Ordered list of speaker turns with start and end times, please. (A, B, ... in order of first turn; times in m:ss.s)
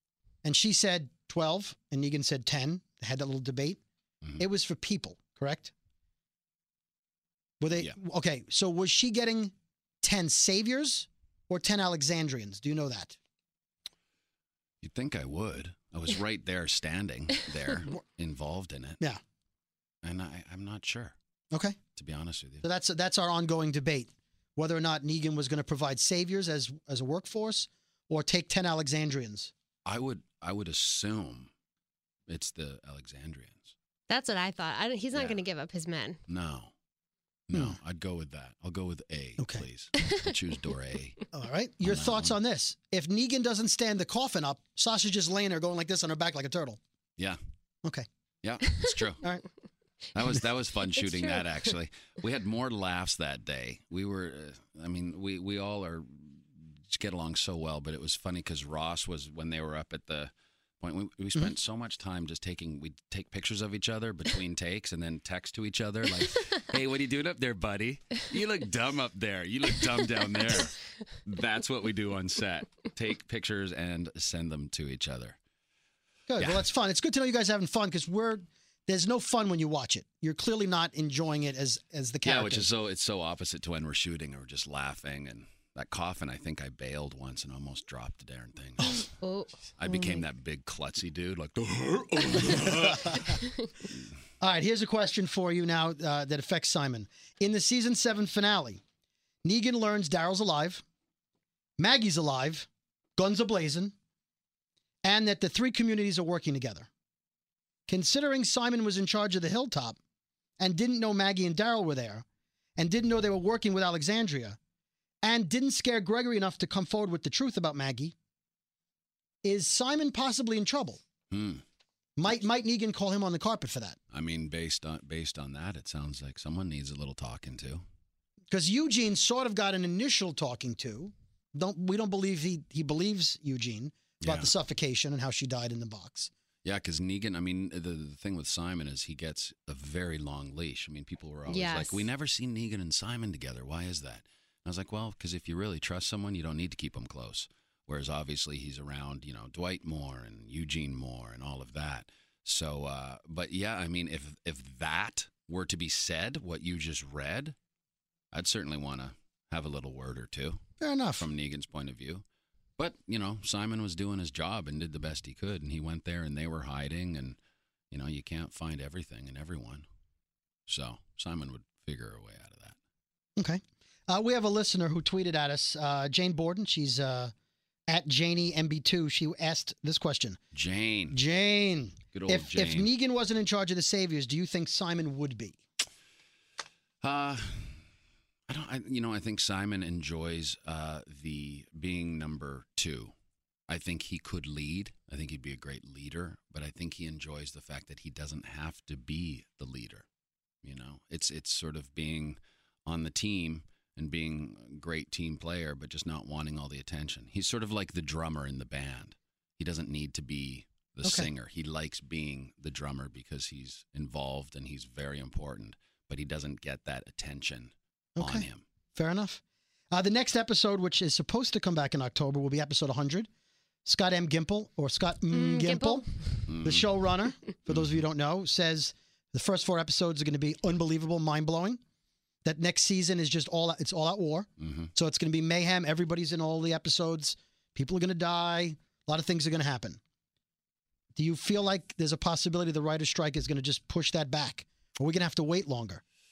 0:00.4-0:03.8 A
0:04.4-0:05.7 A
0:07.6-0:13.2 A
0:14.8-0:19.0 B
0:20.0-0:21.2 B
0:21.5-0:21.8 A
0:21.9-0:22.6 B
0:22.6-0:29.5 A
0:29.8-0:31.5 B
0:32.3-0:33.7 B
0:34.1-0:36.2 C
0:35.1-0:35.4 B
0:36.3-0:36.7 B
0:37.5-0:41.2 B
0:39.4-0:39.6 A
0:41.3-0:46.8 A
0:41.8-0:42.3 B
0:48.4-0:49.2 B
0:50.1-1:15.4 B
0:51.0-0:51.4 C
1:16.3-1:22.7 A
1:16.4-1:16.6 B
1:22.2-1:29.1 B
1:29.1-1:30.2 C
1:29.8-1:33.4 B
1:32.5-1:33.4 A
1:34.4-1:38.8 A
1:39.4-1:40.8 A
1:41.8-1:43.9 A
1:45.0-1:46.9 A
1:47.9-1:50.0 A
1:50.6-1:52.2 A
1:52.8-1:54.6 A
1:55.2-1:58.1 A
1:59.4-2:01.0 A
2:01.3-2:01.6 B
2:02.2-2:04.0 A
2:04.1-2:07.8 B
2:08.5-2:16.3 A
2:14.2-2:14.5 B
2:16.6-2:37.6 B
2:21.5-2:22.1 C
2:38.3-2:42.2 B
2:40.8-2:41.3 A
2:42.8-2:47.4 B
2:47.9-2:49.8 B
2:50.7-2:52.8 B
2:53.4-2:57.3 A
2:57.9-3:00.4 A
3:00.5-3:01.2 B
3:01.1-3:05.6 A
3:02.1-3:02.9 B
3:07.0-3:07.8 B
3:08.5-3:13.1 B
3:13.7-3:20.0 B
3:20.6-3:38.6 B
3:31.0-3:31.3 A
3:38.2-3:43.3 A
3:43.8-3:46.1 A
3:45.3-3:46.0 C
3:46.4-3:46.9 B
3:46.6-3:51.8 A
3:47.7-3:48.0 B
3:52.4-4:00.0 A
3:54.6-3:54.9 B
4:01.2-4:06.0 A